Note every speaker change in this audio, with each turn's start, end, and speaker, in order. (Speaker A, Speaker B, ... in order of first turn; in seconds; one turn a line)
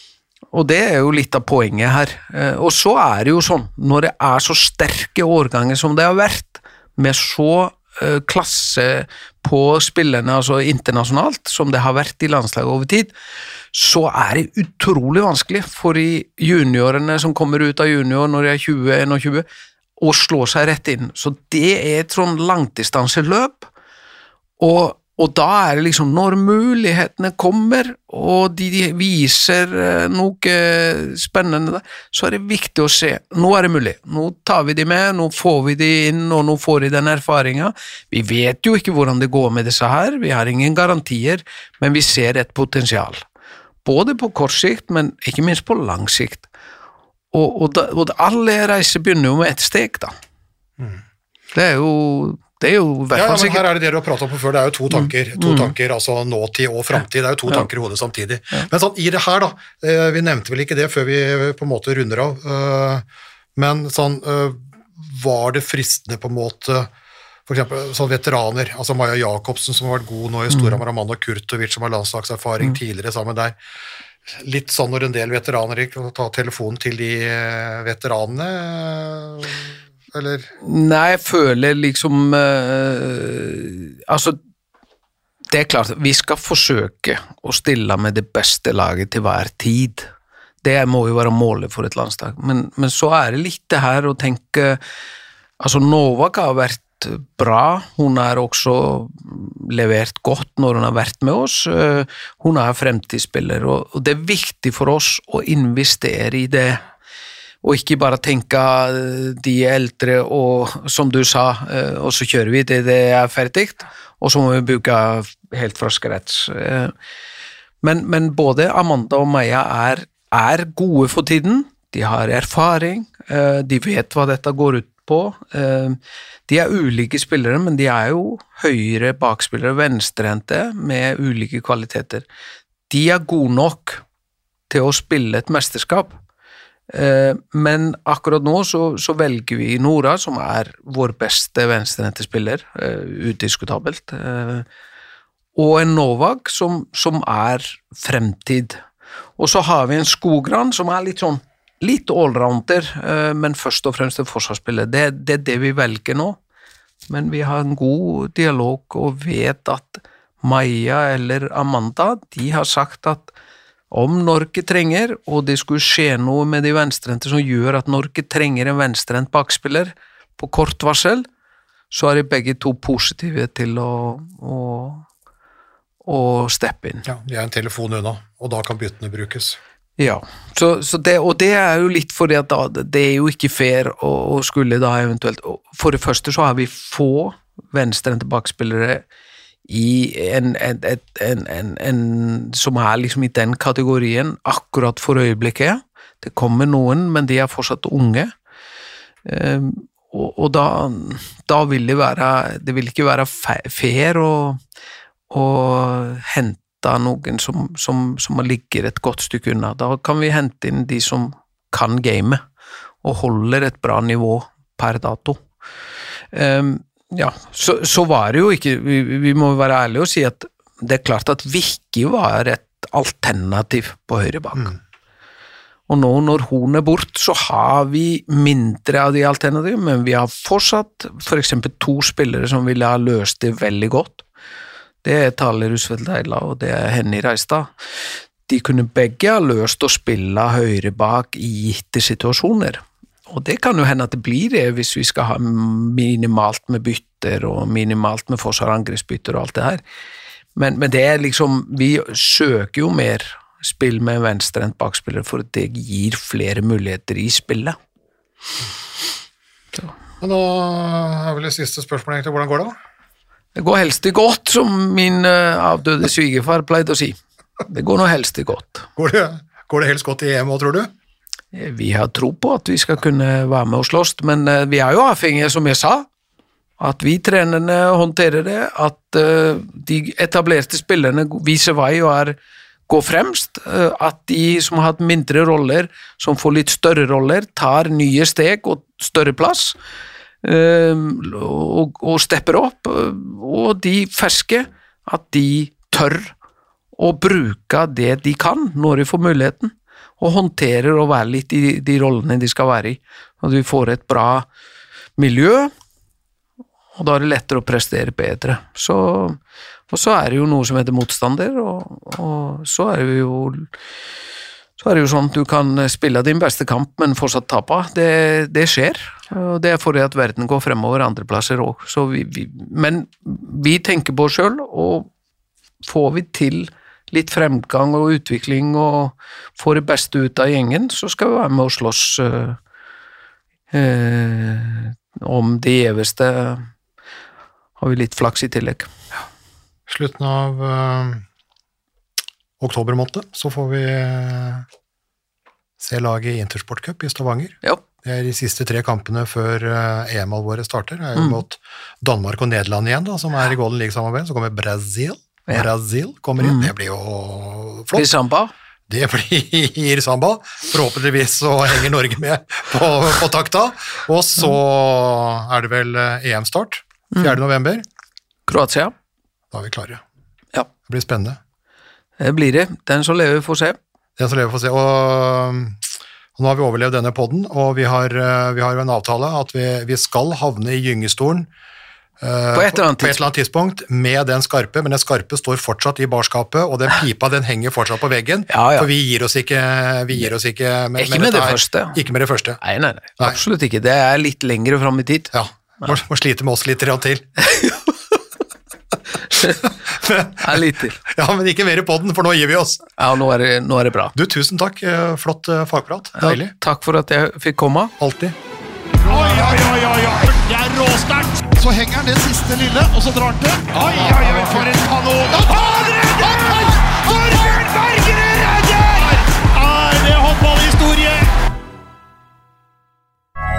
Speaker A: 0.5-13.1
Speaker A: 13.7-19.4
Speaker A: 20.0-23.7
Speaker A: 24.6-43.2
Speaker A: 43.8-46.5
Speaker A: 47.3-50.1
Speaker B: 50.8-51.0
Speaker A: 51.5-53.6
Speaker B: 53.1-63.0
Speaker A: 54.9-55.7
Speaker B: 63.5-66.9
Speaker B: 67.5-73.5
Speaker A: 70.5-70.8
Speaker B: 74.3-80.5
Speaker A: 80.6-84.4
Speaker A: 85.5-90.1
Speaker A: 90.6-94.8
Speaker A: 95.6-106.8
Speaker A: 107.6-116.9
Speaker A: 117.8-132.2
Speaker A: 132.9-134.0
Speaker A: 134.7-136.2
Speaker A: 136.9-144.7
Speaker A: 145.6-148.8
Speaker A: 149.4-156.4
Speaker A: 157.1-163.3
Speaker A: 163.9-171.2
Speaker A: 171.9-175.1
Speaker A: 176.0-177.1
Speaker B: 177.1-179.6
Speaker A: 180.0-189.0
Speaker A: 189.7-198.3
Speaker A: 199.2-204.6
Speaker A: 205.3-212.4
Speaker A: 213.0-215.4
Speaker A: 216.3-224.7
Speaker A: 225.9-234.2
Speaker A: 235.0-237.7
Speaker A: 238.5-249.8
Speaker A: 250.5-257.8
Speaker B: 260.2-262.8
Speaker A: 263.5-268.9
Speaker B: 268.9-270.9
Speaker A: 271.5-276.1
Speaker A: 276.8-282.4
Speaker A: 282.9-289.8
Speaker A: 290.4-296.3
Speaker A: 297.0-304.5
Speaker A: 305.2-305.7
Speaker A: 306.9-309.4
Speaker A: 309.9-313.7
Speaker A: 314.8-325.1
Speaker A: 325.8-332.6
Speaker A: 333.7-336.7
Speaker A: 337.8-338.9
Speaker B: 339.9-341.2
Speaker B: 342.6-344.6
Speaker B: 345.8-358.1
Speaker A: 351.1-351.4
Speaker A: 356.4-356.7
Speaker A: 357.9-358.5
Speaker B: 358.9-367.8
Speaker A: 368.5-368.9
Speaker B: 369.5-370.0
Speaker B: 370.9-371.4
Speaker A: 372.2-373.8
Speaker B: 374.2-375.8
Speaker B: 376.4-381.5
Speaker B: 382.2-392.6
Speaker A: 382.5-383.2
Speaker A: 388.5-388.9
Speaker A: 390.9-392.0
Speaker A: 392.6-395.9
Speaker B: 395.3-397.3
Speaker A: 397.4-397.9
Speaker A: 399.3-399.7
Speaker B: 399.6-402.9
Speaker A: 400.4-401.0
Speaker A: 403.0-404.1
Speaker B: 404.1-406.5
Speaker A: 406.2-407.9
Speaker B: 408.0-408.4
Speaker C: 409.0-421.3